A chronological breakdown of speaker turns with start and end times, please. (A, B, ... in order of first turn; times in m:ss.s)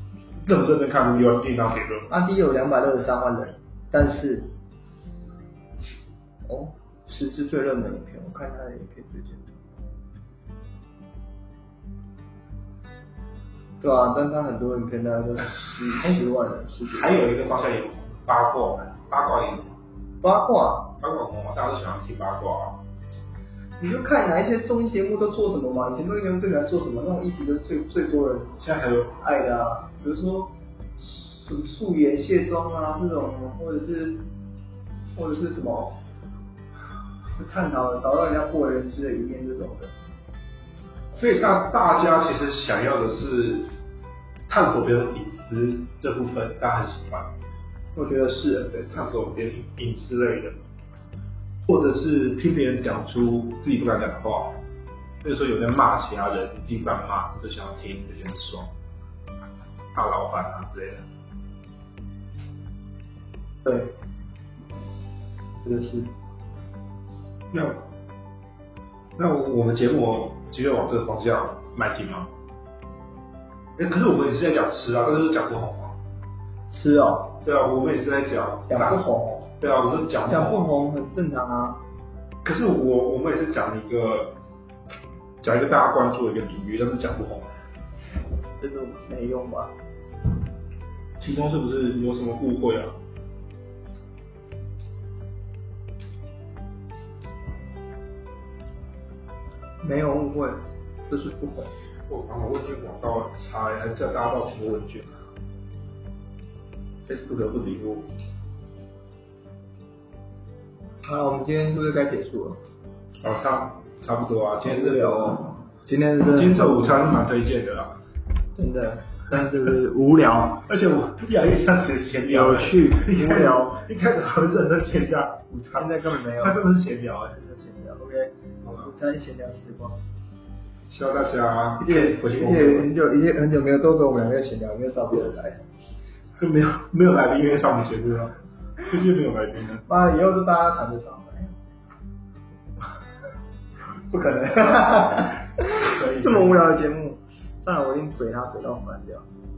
0:00.4-0:02.1 A
0:02.1-0:04.5 B
0:06.4-0:09.5 B
0:13.8-0:17.3 B
0:16.9-0:19.8 A
0:20.2-0:20.9 B
0:21.0-0:22.8 A
0:23.8-0:28.6 B
0:28.6-0:29.1 A
0:29.2-0:34.2 B
0:35.1-0:36.0 B
0:37.3-0:39.9 B
0:41.1-0:43.7 A
0:44.5-0:47.3 A
0:47.9-0:49.0 B
0:48.9-0:50.6 A
0:51.6-0:54.6 A
0:55.2-0:58.7 A
0:59.9-1:01.0 A
1:03.6-1:04.0 B
1:05.6-1:06.1 B
1:07.5-1:07.8 A
1:09.2-1:12.3 A
1:13.8-1:16.0 A
1:16.7-1:17.4 B
1:17.4-1:19.0 A
1:18.7-1:19.6 B
1:19.6-1:20.6 A
1:20.2-1:21.8 B
1:22.4-1:24.3 A
1:25.4-1:27.5 A
1:28.6-1:29.7 B
1:31.2-1:32.9 A
1:39.8-1:41.7 B
1:42.1-1:45.1 A
1:47.0-1:48.1 A
1:51.0-1:52.6 B
1:53.2-1:55.4 A
1:54.6-1:57.2 B
1:56.3-1:58.0 A
1:58.6-2:00.6 B
2:00.6-2:07.4 A
2:02.3-2:03.8 B
2:05.6-2:06.6 B
2:07.4-2:10.0 B
2:10.9-2:12.9 A
2:11.8-2:15.6 B
2:16.4-2:19.8 A
2:19.9-2:21.5 B
2:24.1-2:29.2 B
2:25.7-2:26.7 A